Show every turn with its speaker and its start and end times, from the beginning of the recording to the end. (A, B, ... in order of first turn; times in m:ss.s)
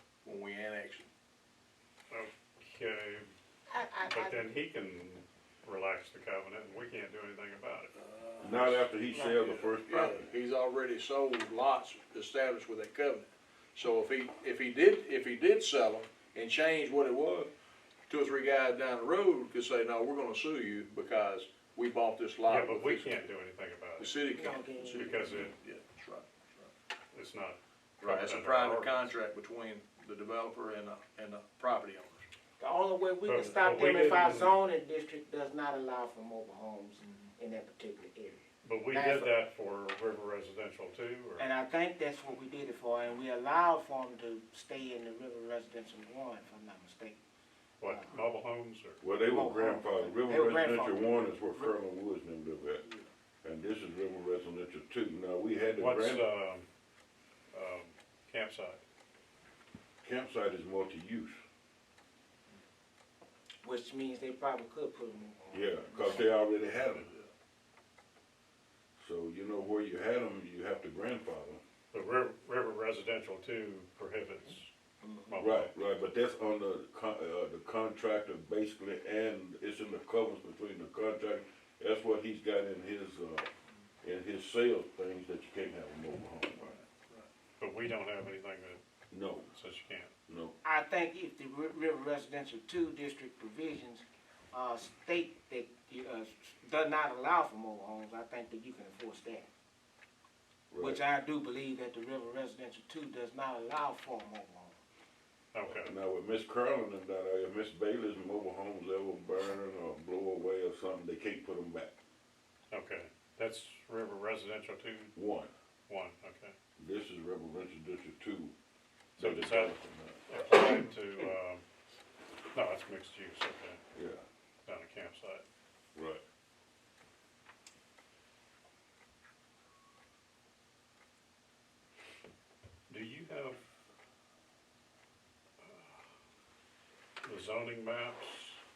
0:00.2-0:01.1 A
0:02.1-0:03.3 B
0:03.7-0:04.4 C
0:04.1-0:07.9 B
0:07.9-0:17.5 A
0:08.4-0:10.2 D
0:18.1-0:23.3 A
0:22.4-0:24.1 B
0:24.0-0:26.7 A
0:24.3-0:25.1 C
0:25.0-0:25.5 B
0:27.1-0:29.1 B
0:28.0-0:32.3 A
0:32.6-0:39.3 C
0:33.2-0:34.6 B
0:37.0-0:37.3 A
0:38.6-0:41.4 B
0:41.4-0:47.2 C
0:47.8-0:49.0 B
0:47.8-0:48.2 C
0:49.0-0:52.8 D
0:49.2-0:51.7 C
0:53.4-0:56.2 D
0:55.8-0:56.6 B
0:57.5-0:58.8 B
1:00.0-1:01.4 D
1:03.6-1:06.3 C
1:05.5-1:07.1 D
1:07.0-1:07.3 A
1:09.0-1:11.6 D
1:11.9-1:14.7 B
1:15.0-1:15.4 C
1:15.3-1:15.7 B
1:15.4-1:23.5 D
1:24.0-1:26.8 D
1:26.7-1:27.3 A
1:27.6-1:28.8 B
1:29.1-1:29.5 D
1:29.5-1:30.1 B
1:30.3-1:30.6 D
1:30.6-1:39.5 C
1:40.7-1:41.0 D
1:40.8-1:44.8 C
1:45.5-1:45.9 B
1:45.6-1:51.9 D
1:52.7-1:55.1 B
1:55.1-1:55.5 D
1:55.9-1:56.5 B
1:56.8-1:58.5 D
1:59.2-2:00.2 D
1:59.2-2:01.6 B
2:02.5-2:03.8 B
2:03.9-2:04.2 D
2:04.6-2:05.4 B
2:05.9-2:06.2 D
2:12.9-2:13.6 B
2:15.6-2:16.0 B
2:17.2-2:18.6 B